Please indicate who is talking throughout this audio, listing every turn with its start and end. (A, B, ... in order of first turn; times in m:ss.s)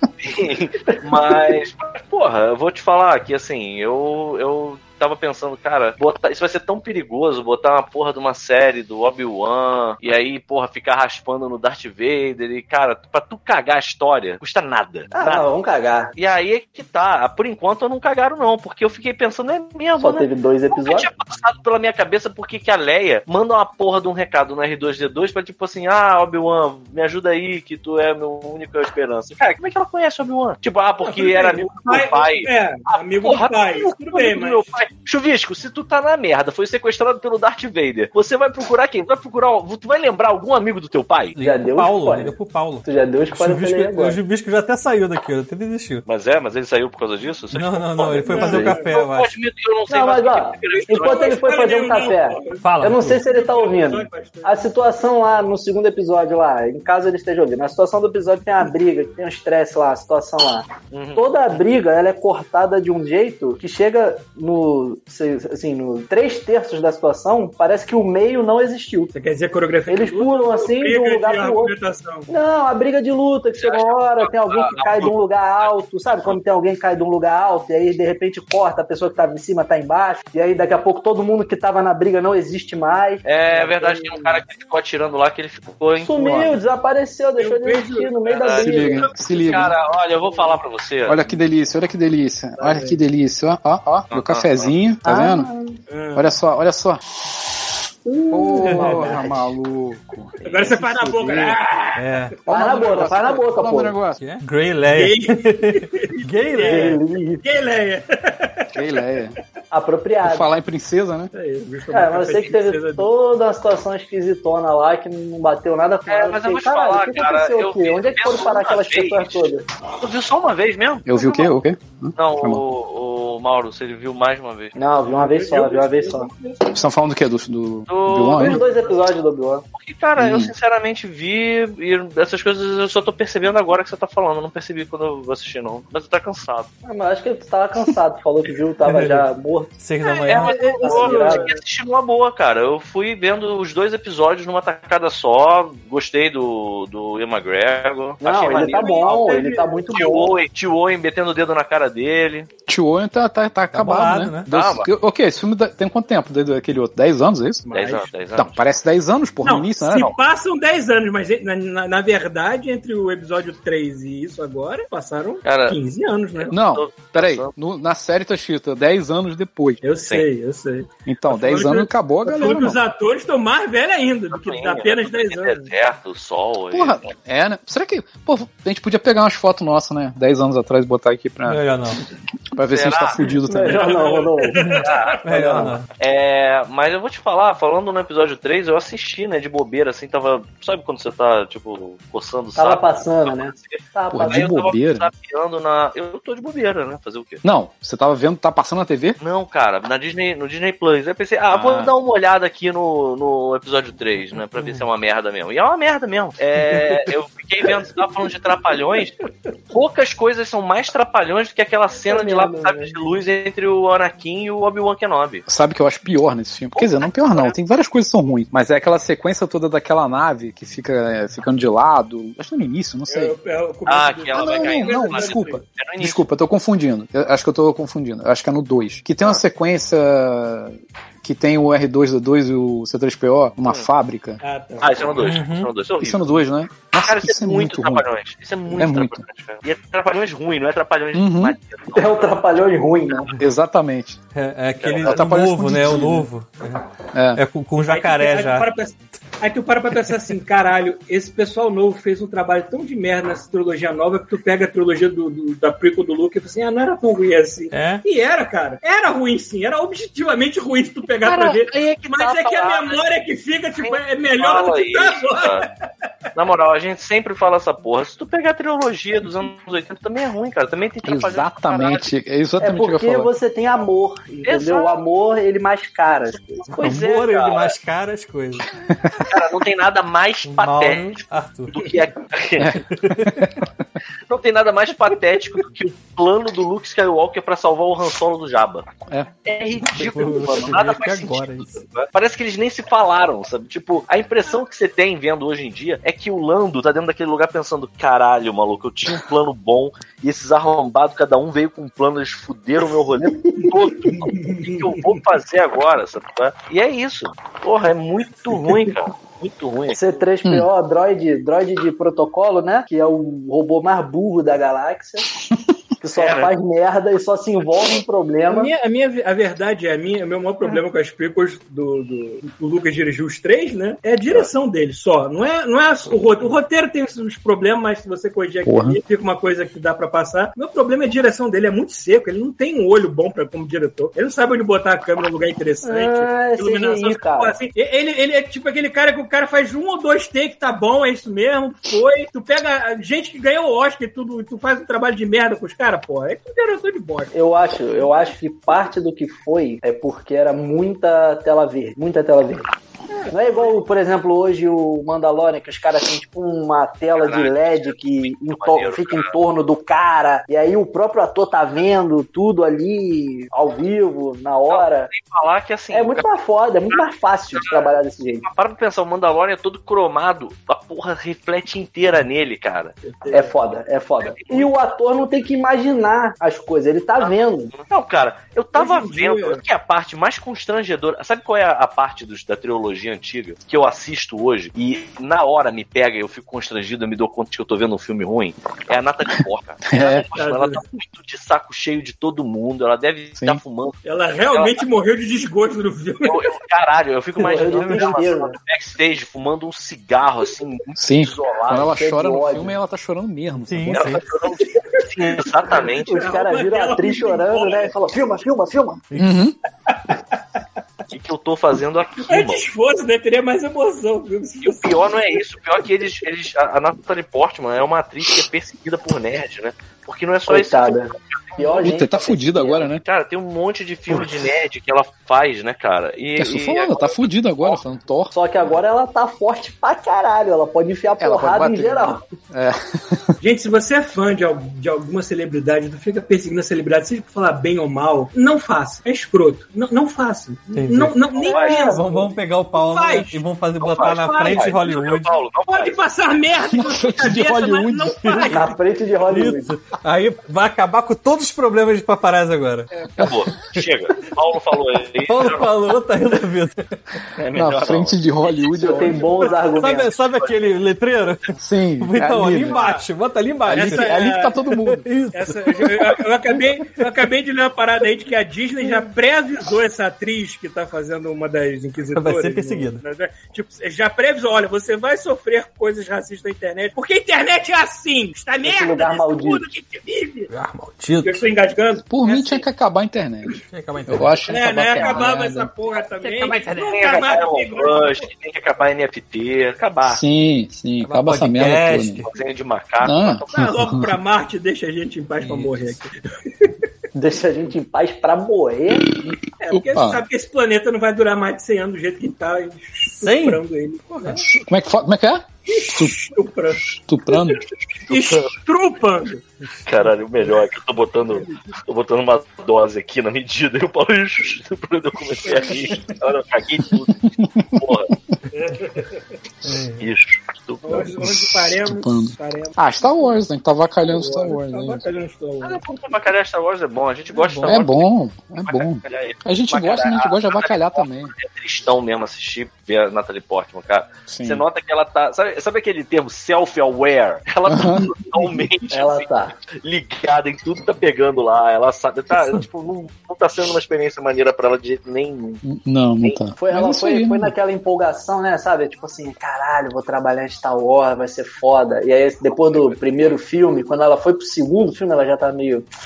0:00.2-0:15.4 A
0:15.1-0:16.1 B
0:16.2-0:41.4 A
0:20.0-0:21.1 B
0:31.0-0:34.7 C
0:41.4-0:46.0 D
0:41.4-0:42.3 B
0:42.8-0:44.2 B
0:46.0-0:51.3 A
0:47.5-0:49.3 D
0:48.2-0:48.9 C
0:48.4-0:48.7 B
0:49.9-1:09.1 B
0:50.6-0:54.7 C
0:52.6-0:53.2 D
1:00.9-1:01.3 A
1:09.1-1:12.3 C
1:09.9-1:11.7 B
1:12.3-1:23.2 B
1:13.6-1:16.4 A
1:23.2-1:26.1 A
1:23.5-1:24.4 C
1:26.0-1:29.1 B
1:26.2-1:26.5 E
1:27.4-1:30.6 C
1:28.4-1:31.3 A
1:28.6-1:29.7 E
1:31.0-1:35.5 E
1:32.6-1:33.0 C
1:34.1-1:34.7 A
1:35.0-1:35.8 B
1:35.9-1:36.3 C
1:36.1-1:37.0 E
1:38.0-1:39.5 B
1:38.3-1:41.6 E
1:38.7-1:39.0 D
1:38.8-1:39.3 C
1:40.4-1:42.0 C
1:42.0-1:42.3 D
1:42.5-1:44.2 E
1:42.5-1:43.9 B
1:42.7-1:43.0 C
1:44.2-1:47.0 D
1:44.9-1:48.8 C
1:46.6-1:47.4 B
1:48.7-1:49.4 E
1:49.7-1:50.5 B
1:50.2-1:51.3 E
1:51.3-1:53.1 C
1:51.9-1:59.6 B
1:56.1-2:01.3 A
2:01.0-2:02.6 E
2:02.2-2:04.7 A
2:04.8-2:06.3 B
2:05.0-2:06.8 C
2:06.7-2:08.6 E
2:07.9-2:08.8 A
2:08.4-2:09.6 B
2:09.7-2:16.7 A
2:10.2-2:10.5 E
2:16.8-2:19.7 B
2:18.8-2:19.2 D
2:19.8-2:20.7 D
2:20.0-2:21.6 C
2:20.3-2:29.4 A
2:20.8-2:21.5 B
2:28.2-2:30.4 B
2:28.4-2:30.0 C
2:29.9-2:32.5 A
2:32.7-2:37.6 E
2:33.7-2:34.5 D
2:34.5-2:34.9 A
2:37.6-2:38.1 C
2:37.7-2:38.6 A
2:38.3-2:40.2 E
2:39.4-2:46.5 C
2:45.4-2:45.8 A
2:46.4-2:47.5 A
2:46.5-2:49.8 E
2:49.8-2:55.7 C
2:51.1-2:52.8 E
2:54.3-2:57.0 A
2:56.7-3:01.6 E
3:01.5-3:02.0 D
3:02.5-3:04.0 E
3:02.7-3:03.2 A
3:03.4-3:05.8 B
3:03.6-3:05.3 C
3:04.7-3:05.8 D
3:04.8-3:05.2 A
3:05.9-3:17.4 A
3:12.6-3:14.5 B
3:14.1-3:15.1 E
3:17.4-3:19.2 E
3:19.2-3:29.1 A
3:21.5-3:21.9 E
3:29.7-3:35.4 A
3:32.1-3:33.0 B
3:35.5-3:43.3 E
3:36.7-3:37.5 A
3:43.1-3:45.6 C
3:43.8-3:46.2 A
3:44.3-3:54.4 E
3:54.4-3:55.1 C
3:54.8-4:02.6 A
3:55.2-3:55.7 D
3:56.0-3:58.0 E
3:58.7-3:59.2 E
4:01.1-4:01.6 E
4:01.9-4:03.3 B
4:03.3-4:04.2 E
4:04.3-4:08.7 D
4:04.8-4:05.2 A
4:05.0-4:06.3 E
4:07.1-4:07.4 E
4:07.9-4:25.7 C
4:17.7-4:18.0 D
4:21.2-4:23.0 A
4:23.8-4:25.6 A
4:26.3-4:32.0 A
4:31.0-4:33.3 E
4:32.6-4:36.8 B
4:34.4-4:35.0 A
4:36.7-4:37.7 A
4:36.7-4:38.7 D
4:39.2-4:41.2 A
4:40.4-4:41.7 D
4:41.7-4:42.8 A
4:42.6-4:43.5 E
4:43.0-4:43.3 D
4:44.3-4:48.8 A
4:49.4-5:10.0 A
4:49.9-4:51.8 D
5:03.2-5:03.8 B
5:04.0-5:05.1 C
5:09.9-5:15.2 B
5:16.0-5:18.7 B
5:16.1-5:16.5 A
5:18.5-5:47.3 C
5:28.6-5:29.0 E
5:35.8-5:37.6 B
5:47.3-5:52.7 B
5:53.1-5:53.8 C
5:53.3-6:05.1 B
5:57.2-5:59.3 A
6:04.7-6:06.3 A
6:05.9-6:08.4 B
6:07.5-6:07.9 A
6:08.4-6:12.9 A
6:13.0-6:13.6 C
6:13.3-6:17.7 B
6:14.2-6:14.7 A
6:17.2-6:34.8 A
6:18.8-6:19.6 C
6:29.9-6:30.2 E
6:30.3-6:30.8 C
6:34.0-6:36.5 C
6:36.2-6:41.9 A
6:37.4-6:38.5 B
6:37.7-6:38.1 D
6:41.0-6:44.2 E
6:41.7-6:42.7 B
6:43.7-6:44.2 D
6:43.9-6:46.0 A
6:44.5-6:47.9 C
6:46.0-6:49.0 B
6:49.1-6:49.4 D
6:49.1-6:49.6 E
6:49.9-6:50.6 C
6:51.1-6:52.6 A
6:52.3-6:55.2 C
6:54.6-7:01.9 A
7:00.5-7:02.9 B
7:01.8-7:03.0 E
7:03.0-7:07.8 A
7:06.4-7:08.3 E
7:08.3-7:12.2 B
7:11.2-7:13.4 E
7:13.4-7:23.4 C
7:20.7-7:25.3 D
7:21.3-7:22.0 A
7:21.5-7:22.0 B
7:23.8-7:26.0 A
7:24.0-7:24.9 C
7:25.7-7:28.8 C
7:26.7-7:28.4 E
7:28.5-7:29.7 B
7:29.3-7:32.9 D
7:33.2-7:35.7 A
7:35.2-7:36.9 D
7:37.4-7:38.2 A
7:37.5-7:39.3 E
7:38.8-7:40.1 B
7:39.7-7:44.2 D
7:41.6-7:42.8 E
7:42.7-7:43.0 C
7:43.7-7:44.6 C
7:43.7-7:45.0 E
7:44.8-7:46.0 D
7:45.3-8:00.5 C
7:52.1-7:53.0 D
7:58.6-7:59.7 B
8:00.5-8:01.4 D
8:01.2-8:02.6 C
8:02.1-8:05.7 E
8:03.7-8:05.2 D
8:04.5-8:08.3 C
8:06.2-8:07.0 D
8:06.8-8:10.2 A
8:10.0-8:12.2 E
8:11.0-8:12.3 D
8:12.2-8:13.6 A
8:13.0-8:14.1 E
8:13.5-8:16.7 C
8:15.4-8:16.0 D
8:17.1-8:19.1 B
8:19.2-8:20.2 E
8:19.6-8:24.5 C
8:23.1-8:23.6 D
8:24.3-8:26.1 E
8:25.7-8:29.4 C
8:27.0-8:27.6 E
8:28.1-8:28.5 A
8:29.8-8:38.1 A
8:31.2-8:31.7 C
8:35.4-8:36.2 C
8:37.2-8:38.4 E
8:38.5-8:39.2 C
8:39.6-8:40.1 D
8:40.0-8:41.2 A
8:40.8-8:43.4 C
8:41.2-8:45.0 E
8:44.0-8:45.8 C
8:45.6-8:48.1 A
8:47.3-8:47.8 D
8:47.6-8:51.3 E
8:48.6-9:05.6 A
8:54.3-8:54.6 E
8:57.7-8:58.1 E
8:58.9-8:59.5 B
9:05.6-9:07.5 E
9:06.6-9:15.9 B